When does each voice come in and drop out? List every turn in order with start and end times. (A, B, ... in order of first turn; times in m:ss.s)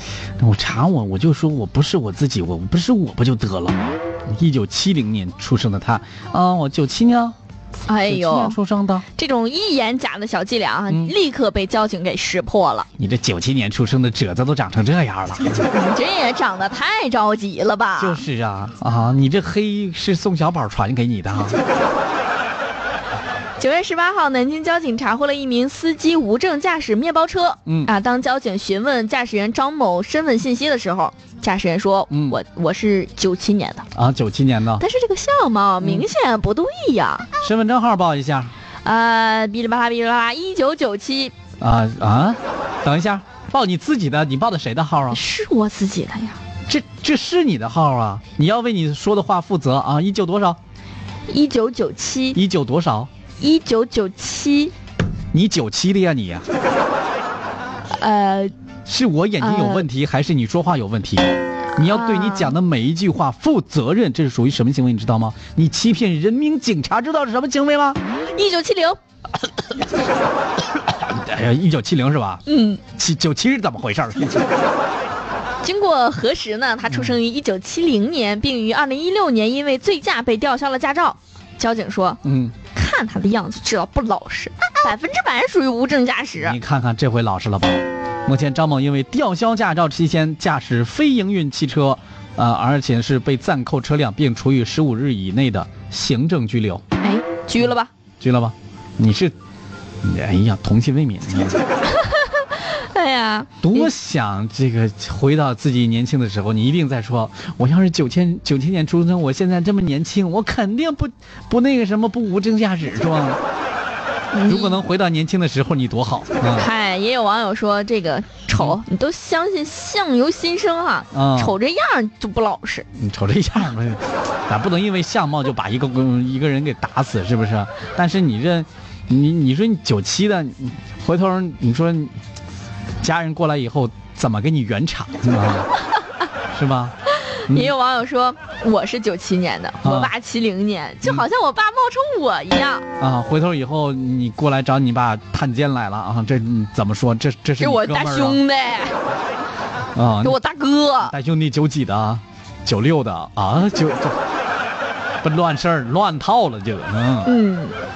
0:00.4-0:07.4 A
0:07.9-0:08.6 B
0:08.0-0:09.1 A
0:09.2-0:12.9 B
0:10.9-0:11.1 A
0:13.0-0:15.6 A
0:15.6-0:18.2 B
0:18.0-0:21.6 A
0:23.6-0:33.9 B
0:27.7-0:27.9 A
0:32.1-0:32.4 A
0:33.9-0:34.8 A
0:34.8-0:37.3 B
0:35.8-0:36.1 A
0:37.4-0:38.5 A
0:38.8-0:41.3 B
0:41.6-0:45.2 A
0:45.1-0:46.4 B
0:46.7-0:50.6 A
0:51.3-0:52.4 B
0:52.3-0:53.1 A
0:53.4-0:54.7 B
0:55.3-0:56.5 A
0:57.9-0:58.5 B
0:58.9-1:08.0 A
0:59.4-0:59.9 B
1:01.8-1:02.5 B
1:08.3-1:09.0 B
1:10.8-1:14.5 A
1:12.5-1:12.8 B
1:15.6-1:22.2 B
1:16.9-1:17.2 A
1:22.2-1:22.6 A
1:22.7-1:26.6 B
1:26.4-1:36.8 A
1:37.0-1:37.9 B
1:38.2-1:39.3 A
1:40.0-1:41.6 A
1:41.9-1:43.9 B
1:43.6-1:53.4 A
1:54.3-1:54.8 B
1:54.5-1:56.7 A
1:56.4-2:02.9 B
2:01.1-2:01.6 A
2:02.9-2:12.1 A
2:13.0-2:15.7 A
2:16.5-2:17.0 A
2:17.1-2:22.9 B
2:19.8-2:20.1 A
2:23.0-2:28.4 A
2:27.6-2:29.0 B
2:30.0-2:30.4 A
2:30.2-2:31.1 B
2:31.0-2:34.2 A
2:35.2-2:37.3 A
2:37.2-2:37.8 B